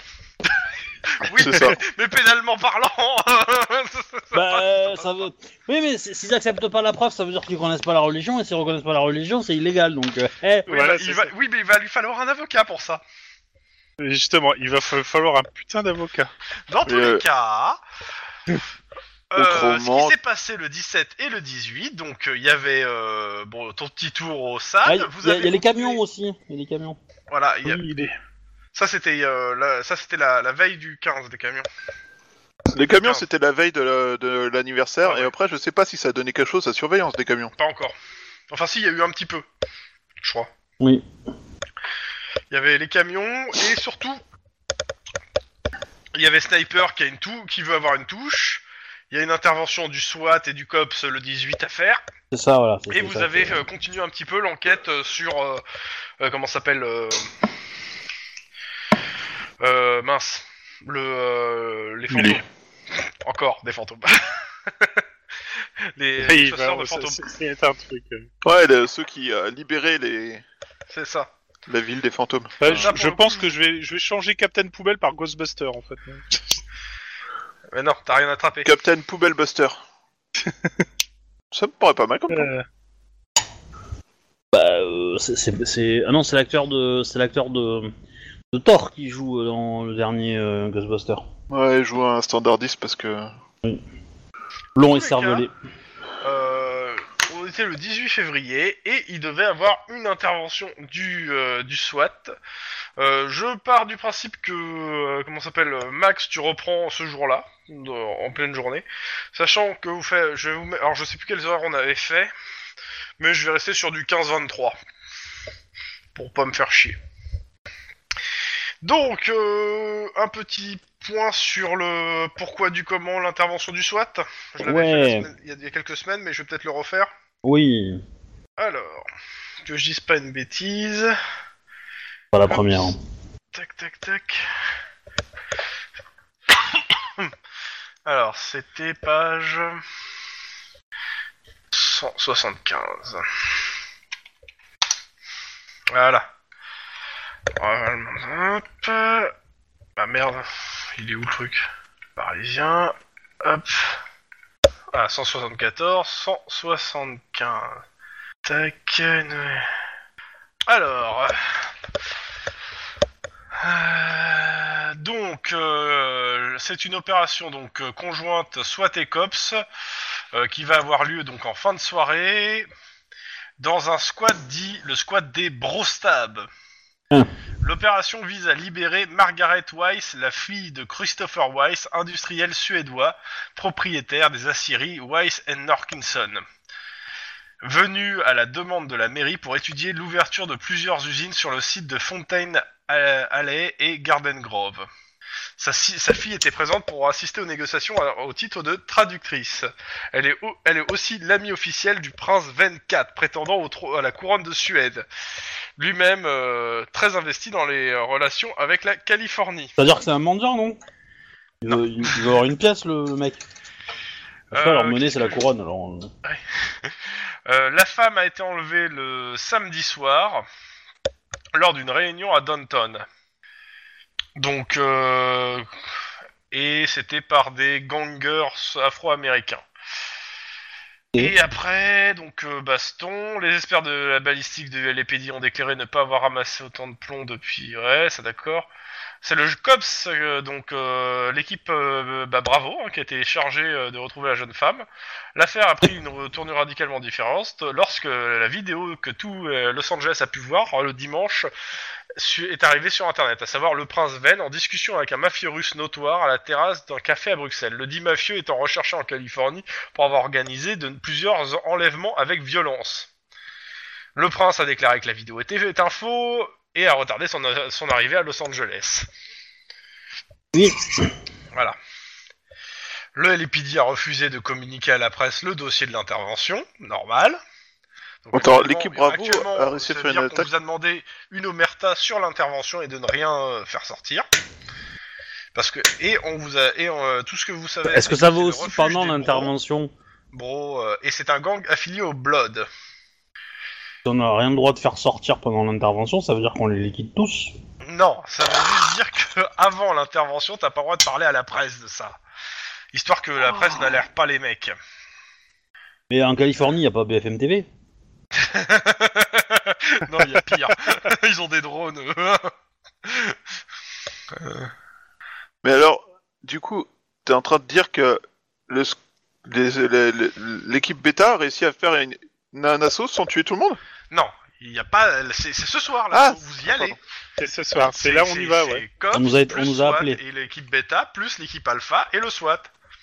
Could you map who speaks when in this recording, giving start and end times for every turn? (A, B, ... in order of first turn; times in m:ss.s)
0:01.2-0:05.2 A
0:01.3-0:01.8 B
0:04.3-0:10.7 C
0:10.7-0:11.3 D
0:10.7-0:13.0 A
0:14.0-0:16.3 D
0:16.7-0:17.8 A
0:16.8-0:17.2 B
0:19.3-0:26.0 A
0:19.3-0:20.2 B
0:24.8-0:27.0 C
0:27.3-0:27.8 A
0:27.6-0:28.2 D
0:28.7-0:31.7 A
0:32.7-0:37.5 B
0:35.0-0:35.3 A
0:37.6-0:37.9 A
0:38.5-0:39.4 A
0:40.2-0:40.5 A
0:42.5-0:44.2 A
0:46.1-0:52.0 A
0:52.3-0:53.6 C
0:52.9-0:55.6 A
0:56.2-0:57.3 A
0:59.6-1:02.4 A
1:02.1-1:02.4 B
1:03.2-1:05.0 A
1:05.9-1:07.2 A
1:06.2-1:08.3 D
1:08.4-1:10.4 B
1:10.9-1:11.3 A
1:11.7-1:12.9 B
1:12.6-1:16.4 D
1:12.6-1:13.5 A
1:17.7-1:18.7 A
1:18.6-1:19.8 B
1:20.4-1:20.7 D
1:21.5-1:22.5 B
1:22.3-1:22.6 D
1:24.5-1:27.9 C
1:28.5-1:31.2 C
1:31.5-1:33.3 B
1:34.8-1:35.5 C
1:34.9-1:35.4 A
1:36.2-1:42.3 A
1:43.0-1:52.3 A
1:53.2-1:54.8 A
1:56.1-1:57.0 A
1:58.8-2:07.1 A
2:04.6-2:05.3 C
2:07.4-2:08.0 C
2:08.6-2:09.1 A
2:09.6-2:11.2 A
2:12.3-2:13.0 C
2:12.5-2:12.9 A
2:13.5-2:14.4 A
2:16.6-2:17.3 A
2:18.0-2:19.8 A
2:21.7-2:23.2 A
2:25.9-2:26.2 A
2:27.6-2:29.3 A
2:30.0-2:31.6 A
2:32.2-2:34.0 A
2:34.9-2:37.8 A
2:38.4-2:39.7 A
2:40.7-2:41.7 A
2:43.6-2:49.6 A
2:50.3-2:52.7 A
2:53.6-2:56.5 A
2:57.6-3:06.4 A
3:07.6-3:14.9 A
3:15.6-3:25.0 A
3:25.8-3:29.7 A
3:29.8-3:30.8 C
3:31.6-3:33.4 C
3:34.5-3:36.1 C
3:34.5-3:35.4 A
3:36.2-3:40.4 A
3:41.5-3:43.0 A
3:44.4-3:45.7 A
3:46.5-3:49.6 A
3:51.2-3:58.7 A
3:59.2-4:11.5 A
4:12.2-4:23.1 A
4:24.2-4:29.1 A
4:30.5-4:31.1 C
4:33.1-4:37.4 A
4:38.2-4:44.2 A
4:38.3-4:40.5 B
4:45.5-4:49.5 A
4:47.9-4:49.9 C
4:50.3-4:52.7 A
4:54.0-4:57.5 C
4:57.8-5:02.2 A
5:02.9-5:04.8 A
5:06.1-5:07.7 C
5:08.4-5:12.5 A
5:13.0-5:13.4 A
5:14.3-5:14.7 A
5:15.6-5:23.8 B
5:24.1-5:27.0 A
5:26.1-5:27.0 B
5:27.4-5:28.8 D
5:27.8-5:32.7 A
5:29.1-5:30.2 C